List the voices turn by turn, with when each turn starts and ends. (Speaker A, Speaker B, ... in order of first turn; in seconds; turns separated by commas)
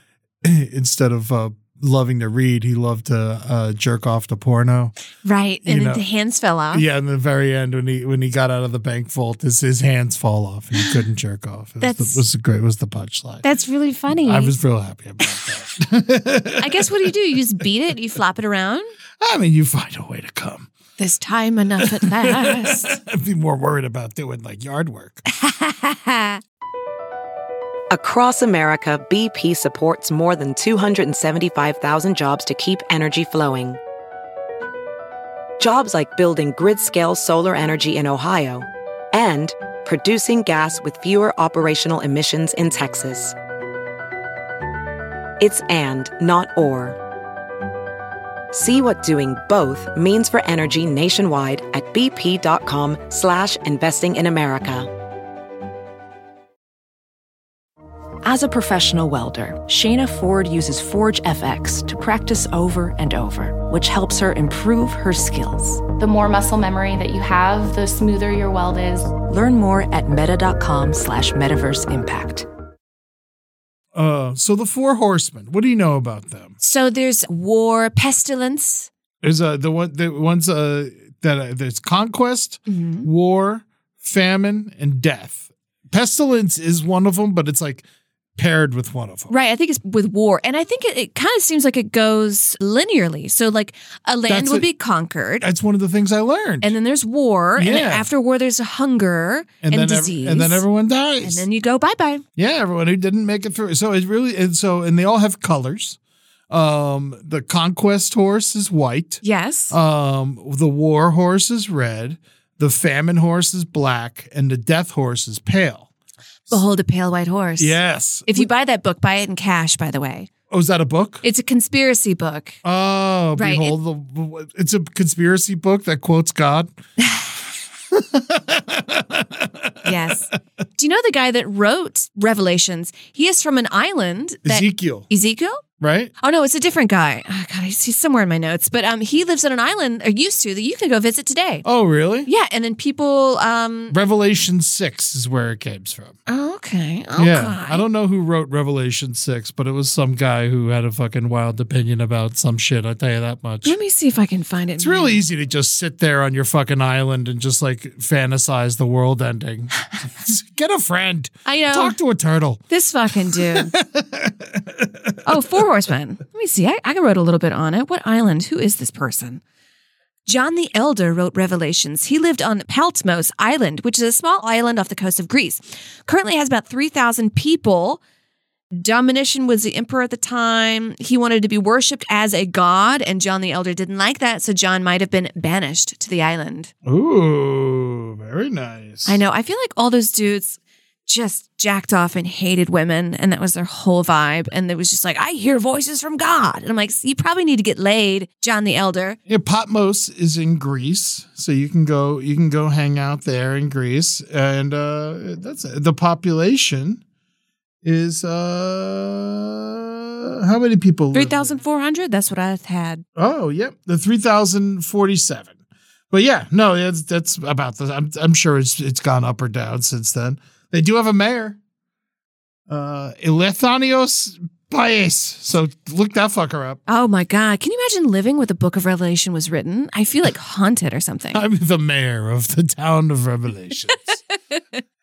Speaker A: 0.4-4.9, Speaker B: 5.2-6.8, Speaker A: 5.6-6.0, Speaker A: 6.7-13.4, Speaker B: 11.8-12.2, Speaker B: 13.4-14.5, Speaker A: 14.1-17.6, Speaker B: 16.6-18.9, Speaker A: 19.2-20.7, Speaker B: 21.0-23.0, Speaker A: 21.8-25.2, Speaker B: 25.3-26.4, Speaker C: 27.9-33.8, Speaker C: 35.6-43.4, Speaker C: 45.4-47.0, Speaker C: 48.5-54.9, Speaker D: 58.2-65.8, Speaker E: 66.0-69.1, Speaker D: 69.2-72.5, Speaker A: 73.9-76.6, Speaker B: 76.6-78.9, Speaker A: 79.2-87.8, Speaker B: 82.7-83.1, Speaker A: 88.4-89.3, Speaker B: 89.3-95.5, Speaker A: 94.3-94.7, Speaker A: 95.4-96.8, Speaker B: 96.6-100.6, Speaker A: 97.6-98.1, Speaker A: 99.6-101.5, Speaker B: 101.2-102.2, Speaker A: 102.4-106.0, Speaker A: 106.5-115.9, Speaker B: 109.2-109.8, Speaker B: 116.5-120.3, Speaker A: 117.6-118.5, Speaker A: 120.5-121.2, Speaker B: 121.2-122.6, Speaker A: 122.6-126.7, Speaker B: 123.4-123.8, Speaker B: 127.0-127.4, Speaker A: 127.9-130.1, Speaker B: 129.8-135.6, Speaker A: 134.4-135.1, Speaker A: 135.8-136.1, Speaker B: 136.2-141.6, Speaker A: 141.6-142.3, Speaker B: 142.3-144.0, Speaker A: 143.9-146.1, Speaker B: 146.3-147.8, Speaker A: 147.2-153.8, Speaker B: 153.6-155.2, Speaker A: 154.8-162.6, Speaker B: 161.4-162.0, Speaker B: 162.7-163.7, Speaker A: 163.3-165.6, Speaker B: 165.2-169.4, Speaker B: 170.3-178.0, Speaker B: 178.7-186.7, Speaker A: 186.8-189.2, Speaker B: 189.1-199.2, Speaker A: 199.3-207.0, Speaker A: 207.8-211.6, Speaker B: 211.1-213.0, Speaker A: 213.2-215.5, Speaker A: 216.1-221.6, Speaker A: 222.7-226.8, Speaker B: 226.9-231.4, Speaker A: 231.3-234.2, Speaker B: 234.5-234.8